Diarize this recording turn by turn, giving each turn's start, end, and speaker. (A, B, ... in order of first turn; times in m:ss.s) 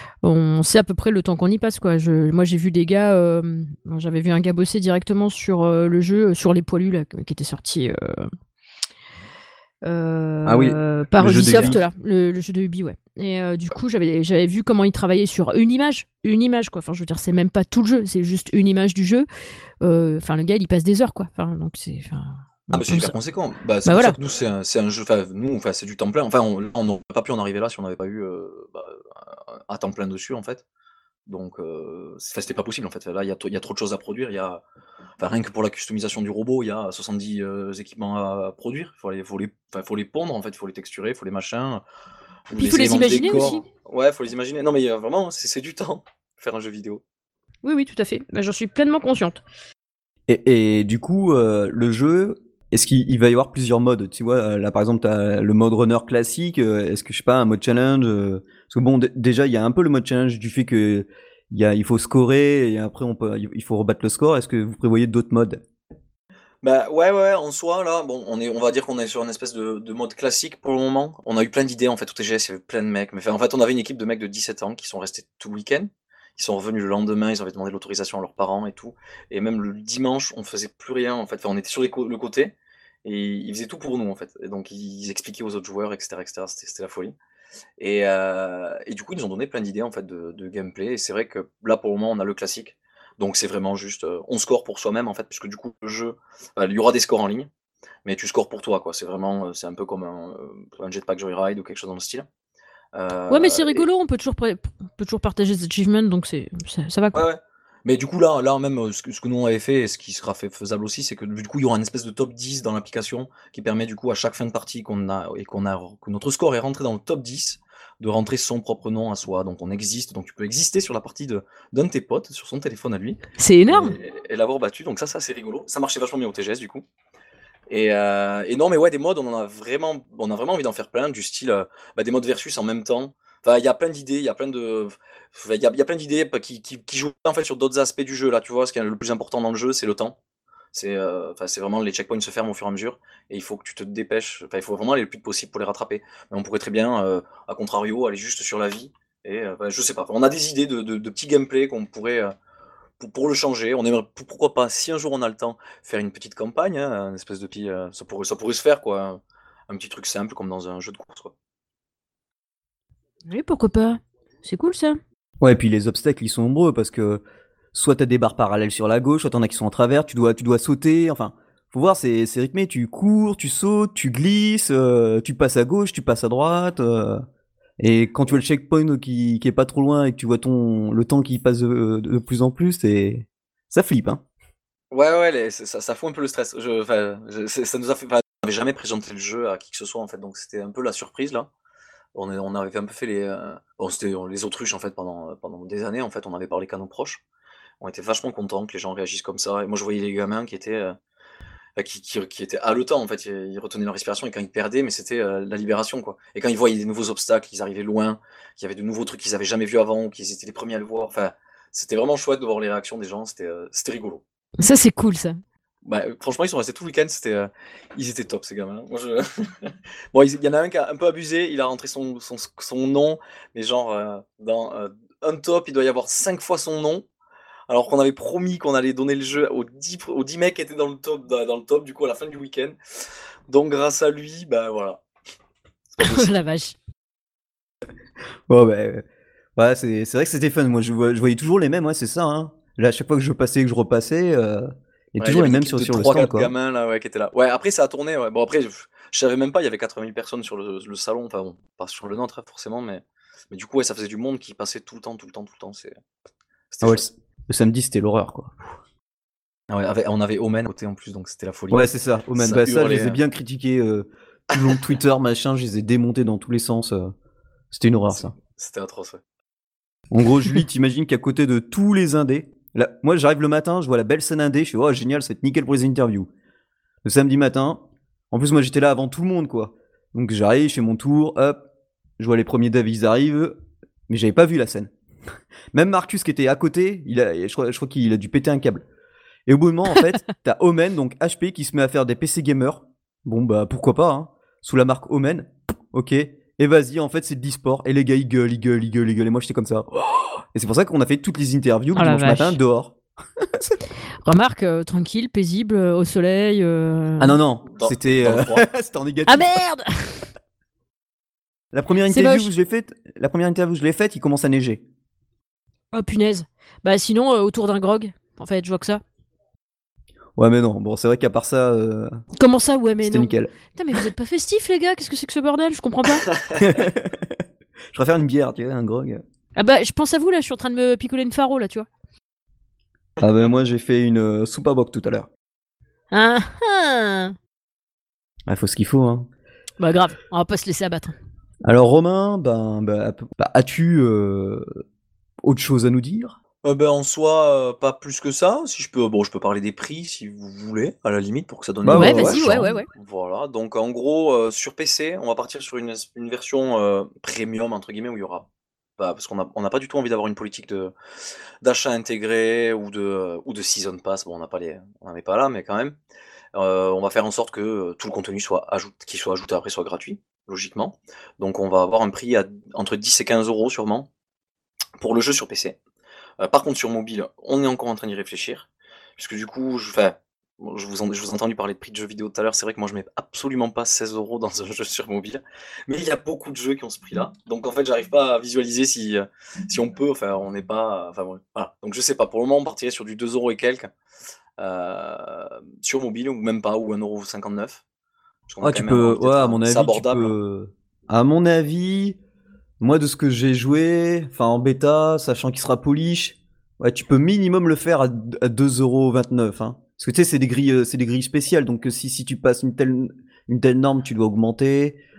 0:00.2-0:08.3 A
0:09.8-0:19.3 A
0:10.4-0:11.8 B
0:19.8-0:23.2 A
0:22.7-0:29.0 C
0:23.9-0:24.2 A
0:29.7-0:30.6 C
0:31.3-0:34.6 C
0:35.2-0:41.8 C
0:42.5-0:47.0 C
0:42.5-0:43.6 A
0:47.6-0:49.4 A
0:50.3-1:05.6 B
1:06.6-1:27.1 C
1:27.8-1:37.5 C
1:38.0-1:42.3 C
1:42.9-1:43.8 C
1:43.3-1:47.2 A
1:47.1-2:06.8 C
2:03.4-2:04.0 A
2:07.7-2:20.2 C
2:20.7-2:32.4 C
2:33.0-2:41.3 C
2:43.3-2:45.0 A
2:45.4-2:47.2 B
2:47.7-2:57.2 B
2:57.8-3:04.2 B
3:04.9-3:11.5 C
3:12.2-3:17.2 C
3:17.8-3:21.0 C
3:21.8-3:34.2 C
3:34.6-3:35.4 A
3:35.8-3:47.0 C
3:47.7-3:52.8 C
3:53.5-3:55.0 C
3:56.0-3:56.3 C
3:56.0-3:56.8 A
3:58.5-3:59.0 B
3:59.6-4:06.5 B
4:05.2-4:16.0 C
4:16.7-4:17.1 C
4:16.8-4:18.8 B
4:19.7-4:23.2 C
4:21.7-4:27.1 B
4:24.5-4:24.8 C
4:27.7-4:28.3 B
4:28.1-4:29.2 C
4:30.1-4:36.3 B
4:37.0-4:41.6 B
4:42.2-4:44.9 B
4:45.7-4:48.9 B
4:49.5-5:03.8 B
5:02.0-5:02.6 A
5:04.2-5:07.4 A
5:07.2-5:09.6 B
5:07.8-5:08.7 C
5:09.3-5:10.3 A
5:11.7-5:14.8 B
5:12.1-5:12.5 A
5:15.9-5:19.0 A
5:20.4-5:22.2 B
5:22.4-5:26.3 A
5:23.0-5:23.5 B
5:26.6-5:29.2 B
5:29.6-5:31.9 A
5:33.2-5:35.3 B
5:36.1-5:37.4 A
5:38.5-5:39.3 B
5:39.8-5:41.1 A
5:41.6-5:44.7 B
5:45.4-5:46.4 B
5:46.6-5:58.5 C
5:51.8-5:52.7 B
5:51.9-5:52.9 A
5:59.0-6:00.9 C
6:01.6-6:06.0 C
6:06.5-6:14.1 C
6:15.0-6:15.8 C
6:16.4-6:33.9 C
6:34.6-6:37.8 C
6:38.5-6:40.4 C
6:38.6-6:42.2 B
6:42.8-6:55.0 B